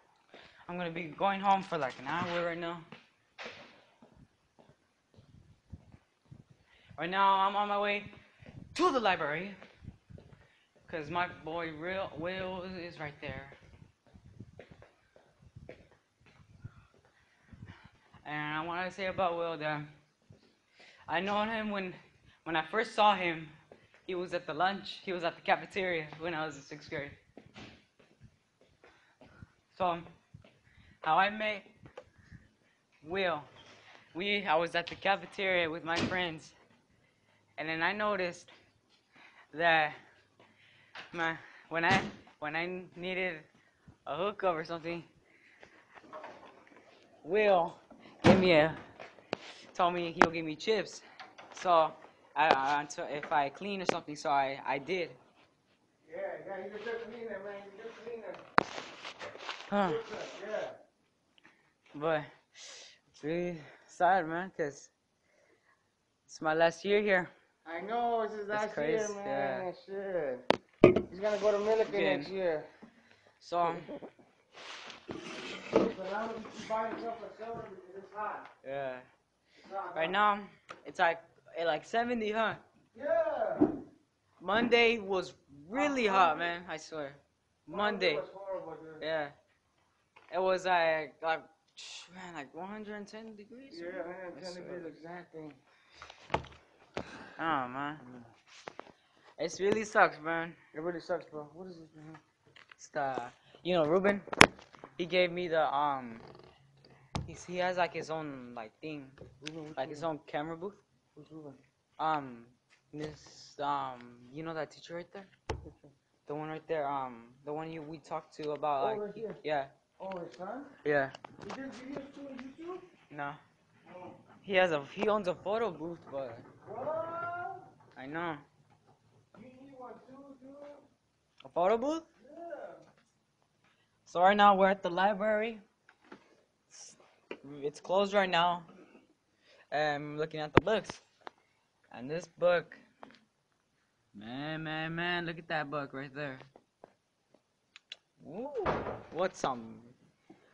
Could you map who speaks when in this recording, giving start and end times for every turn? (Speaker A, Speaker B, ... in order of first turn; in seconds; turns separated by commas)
Speaker A: 0.7-2.9, Speaker A: 7.0-8.2, Speaker A: 8.7-9.6, Speaker A: 10.8-13.6, Speaker A: 18.2-19.9, Speaker A: 21.1-23.5, Speaker A: 24.1-27.2, Speaker A: 29.7-30.1, Speaker A: 31.0-31.7, Speaker A: 33.0-33.5, Speaker A: 34.1-36.5, Speaker A: 37.6-38.5, Speaker A: 39.5-40.0, Speaker A: 41.1-43.5, Speaker A: 44.1-45.1, Speaker A: 47.2-48.8, Speaker A: 49.7-55.2, Speaker B: 56.0-58.4, Speaker A: 59.7-60.0, Speaker B: 59.8-60.8, Speaker A: 61.9-64.9, Speaker A: 66.3-67.3, Speaker B: 67.7-72.7, Speaker A: 68.5-69.7, Speaker A: 71.8-72.3, Speaker A: 73.4-73.9, Speaker B: 73.7-73.9, Speaker B: 75.7-78.5, Speaker A: 78.6-79.1, Speaker B: 79.6-80.2, Speaker A: 80.0-82.6, Speaker B: 82.9-83.8, Speaker A: 84.4-88.2, Speaker B: 85.7-86.5, Speaker B: 87.7-89.0, Speaker A: 89.0-89.3, Speaker A: 90.3-94.9, Speaker B: 93.7-95.6, Speaker A: 97.4-98.0, Speaker A: 99.4-100.6, Speaker B: 100.7-102.2, Speaker A: 102.8-104.3, Speaker A: 105.0-106.3, Speaker A: 107.2-109.2, Speaker B: 109.4-110.1, Speaker A: 109.8-110.8, Speaker B: 111.2-111.6, Speaker A: 112.0-115.3, Speaker A: 116.3-119.7, Speaker B: 118.8-119.4, Speaker B: 120.0-120.7, Speaker A: 120.8-121.2, Speaker B: 121.4-122.8, Speaker A: 123.1-123.4, Speaker B: 123.9-124.2, Speaker A: 124.4-126.5, Speaker B: 126.6-127.7, Speaker A: 128.0-128.4, Speaker B: 129.3-130.9, Speaker A: 131.4-132.1, Speaker B: 132.2-132.8, Speaker A: 134.1-135.6, Speaker A: 136.7-138.7, Speaker A: 139.7-141.0, Speaker A: 141.9-142.8, Speaker A: 144.1-146.5, Speaker A: 148.2-149.9